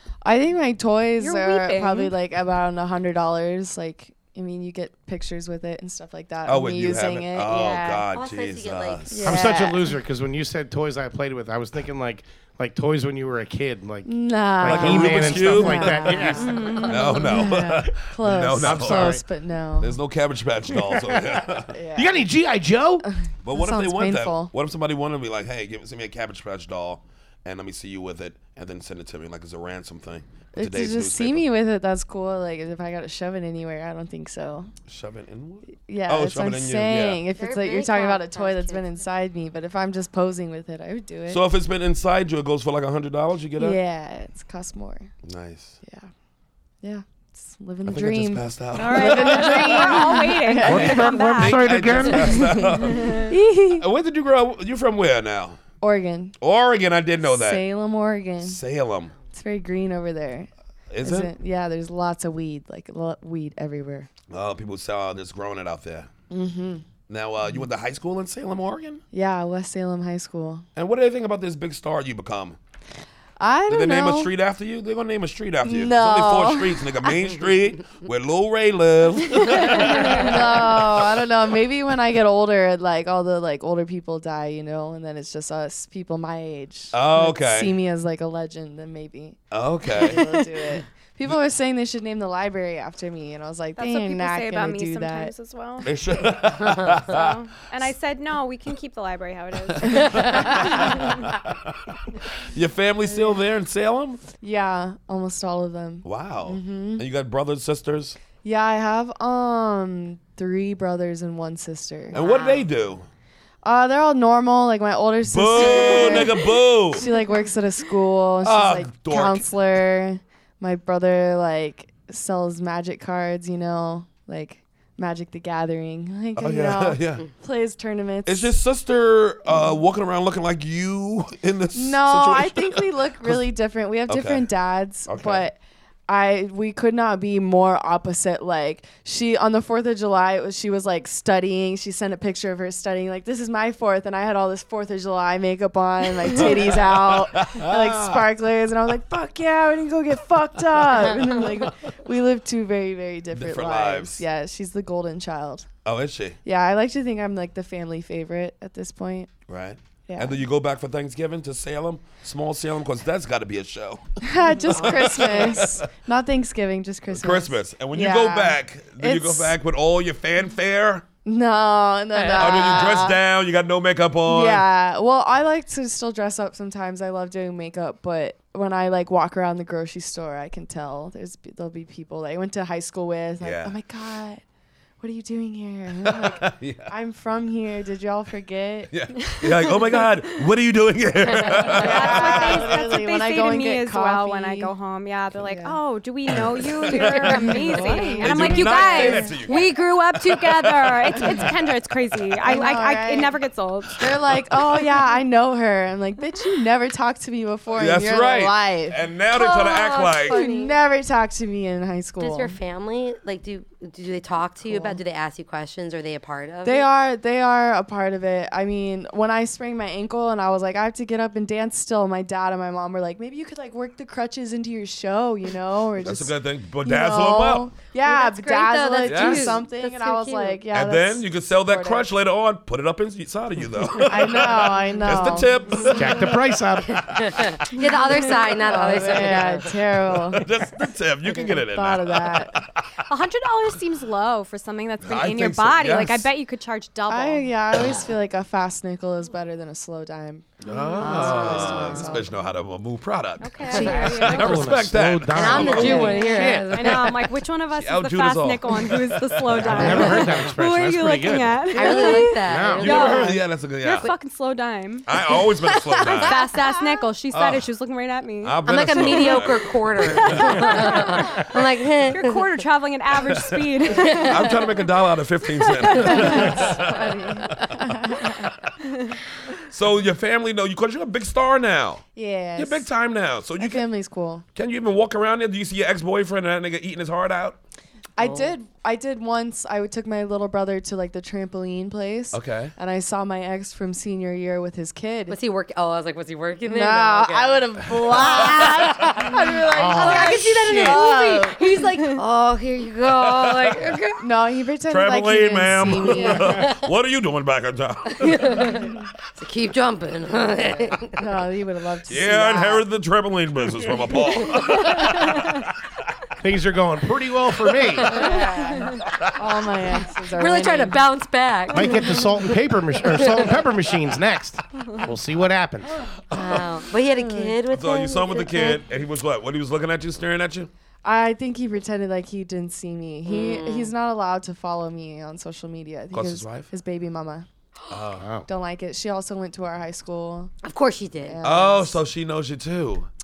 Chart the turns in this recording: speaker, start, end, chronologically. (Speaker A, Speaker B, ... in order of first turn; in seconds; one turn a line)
Speaker A: 0.2-7.9
Speaker B: 1.2-2.1
Speaker C: 6.5-9.5
Speaker D: 7.5-9.2
Speaker A: 9.1-9.9
Speaker E: 9.2-16.5
Speaker A: 14.0-20.0
Speaker C: 14.6-19.2
Speaker D: 16.4-17.2
Speaker B: 16.4-17.3
Speaker E: 18.6-19.2
Speaker C: 19.8-21.8
Speaker E: 20.7-23.1
Speaker A: 21.7-22.2
Speaker A: 23.0-24.5
Speaker C: 23.4-31.4
Speaker A: 30.5-34.7
Speaker C: 34.9-37.2
Speaker A: 35.7-41.4
Speaker D: 37.3-39.0
Speaker C: 41.3-43.8
Speaker A: 43.6-45.1
Speaker C: 45.2-45.8
Speaker A: 45.8-46.1
Speaker A: 46.8-51.4
Speaker C: 47.9-55.6
Speaker B: 48.8-52.2
Speaker E: 50.6-52.6
Speaker A: 52.2-53.9
Speaker B: 52.8-53.3
Speaker A: 55.8-56.3
Speaker C: 56.4-57.6
Speaker A: 57.2-58.6
Speaker C: 58.4-59.1
Speaker A: 59.3-60.5
Speaker C: 60.9-61.3
Speaker A: 61.0-64.1
Speaker C: 64.3-66.1
Speaker A: 66.3-66.8
Speaker C: 67.1-69.0
Speaker A: 69.1-70.6
Speaker C: 70.8-72.6
Speaker A: 73.4-74.3
Speaker C: 73.7-81.2
Speaker A: 75.6-77.1
Speaker A: 79.2-95.3
Speaker C: 86.9-87.8
Speaker C: 89.5-90.5
Speaker B: 93.8-96.3
Speaker C: 95.8-97.3
Speaker B: 96.9-101.2
Speaker C: 99.7-101.9
Speaker C: 102.5-104.2
Speaker A: 104.4-107.0
Speaker C: 106.0-108.2
Speaker A: 108.4-112.2
Speaker D: 112.1-112.7
Speaker C: 112.1-113.0
Speaker A: 113.6-128.5
Speaker C: 115.3-117.0
Speaker C: 118.4-119.5
Speaker C: 126.3-127.2
Speaker C: 128.2-133.4
Speaker A: 129.4-129.8
Speaker A: 131.7-155.7
Speaker C: 134.1-134.5
Speaker C: 135.1-135.5
Speaker C: 146.2-148.3
Speaker C: 150.8-151.3
Speaker C: 153.3-154.2
Speaker C: 155.8-156.4
Speaker A: 156.4-159.3
Speaker C: 159.5-165.9
Speaker A: 160.1-160.4
Speaker A: 164.2-169.5
Speaker C: 167.1-171.0
Speaker A: 171.2-173.2
Speaker D: 172.1-172.7
Speaker C: 172.4-174.7
Speaker A: 174.2-184.4
Speaker C: 183.4-183.7
Speaker A: 185.0-189.7
Speaker C: 186.0-186.9
Speaker C: 188.9-192.8
Speaker D: 191.3-191.9
Speaker A: 191.7-194.7
Speaker B: 191.7-204.1
Speaker A: 195.3-195.8
Speaker C: 196.3-202.2
Speaker A: 196.9-199.6
Speaker A: 202.4-203.4
Speaker A: 204.0-209.0
Speaker C: 207.8-210.4
Speaker D: 209.3-210.7
Speaker A: 210.3-212.6
Speaker B: 210.3-210.6
Speaker D: 212.2-216.8
Speaker A: 214.7-215.0
Speaker A: 216.6-232.1
Speaker C: 226.0-227.7
Speaker D: 228.0-230.6
Speaker C: 229.0-229.6
Speaker C: 230.7-236.4
Speaker A: 234.0-235.7
Speaker E: 235.9-237.2
Speaker D: 236.9-239.7
Speaker C: 237.2-237.6
Speaker A: 238.5-240.5
Speaker C: 240.1-242.8
Speaker A: 241.4-242.5
Speaker B: 243.1-247.5
Speaker C: 245.0-246.3
Speaker A: 247.1-252.3
Speaker C: 250.6-257.1
Speaker D: 251.0-252.1
Speaker B: 253.4-254.7
Speaker A: 253.7-254.4
Speaker E: 253.9-256.7
Speaker D: 255.3-257.1
Speaker B: 255.8-269.4
Speaker C: 257.7-260.4
Speaker E: 259.6-263.2
Speaker D: 259.9-260.2
Speaker D: 261.7-263.4
Speaker C: 262.8-264.1
Speaker C: 265.1-266.4
Speaker A: 266.6-267.0
Speaker C: 267.3-267.7
Speaker C: 268.4-271.4
Speaker D: 268.6-272.4
Speaker B: 270.1-271.6
Speaker B: 272.1-274.8
Speaker C: 273.1-277.8
Speaker D: 273.9-274.5
Speaker B: 275.5-276.7
Speaker D: 276.0-276.4
Speaker A: 276.1-278.5
Speaker C: 279.6-282.0
Speaker A: 282.1-282.9
Speaker C: 282.6-283.9
Speaker A: 283.6-284.4
Speaker C: 284.5-287.6
Speaker A: 288.2-295.4
Speaker D: 288.2-288.5
Speaker C: 292.3-292.7
Speaker D: 295.3-304.2
Speaker A: 296.6-301.8
Speaker E: 299.7-301.1
Speaker C: 303.1-303.9
Speaker A: 304.2-306.6
Speaker C: 304.9-308.7
Speaker D: 305.9-306.8
Speaker D: 308.1-311.2
Speaker A: 308.7-309.0
Speaker A: 311.1-312.9
Speaker C: 312.1-315.6
Speaker D: 314.4-315.0
Speaker E: 316.4-318.2
Speaker D: 318.0-318.8
Speaker A: 318.1-321.0
Speaker D: 320.3-322.2
Speaker E: 321.7-325.9
Speaker A: 322.0-322.2
Speaker D: 323.1-323.4
Speaker C: 326.3-326.8
Speaker D: 326.3-328.8
Speaker A: 327.1-327.6
Speaker C: 327.7-330.7
Speaker A: 331.0-337.4
Speaker D: 333.3-333.9
Speaker C: 336.1-336.7
Speaker C: 337.9-338.3
Speaker E: 338.2-338.4
Speaker A: 338.5-340.5
Speaker D: 340.6-341.4
Speaker A: 341.2-342.0
Speaker C: 341.4-343.1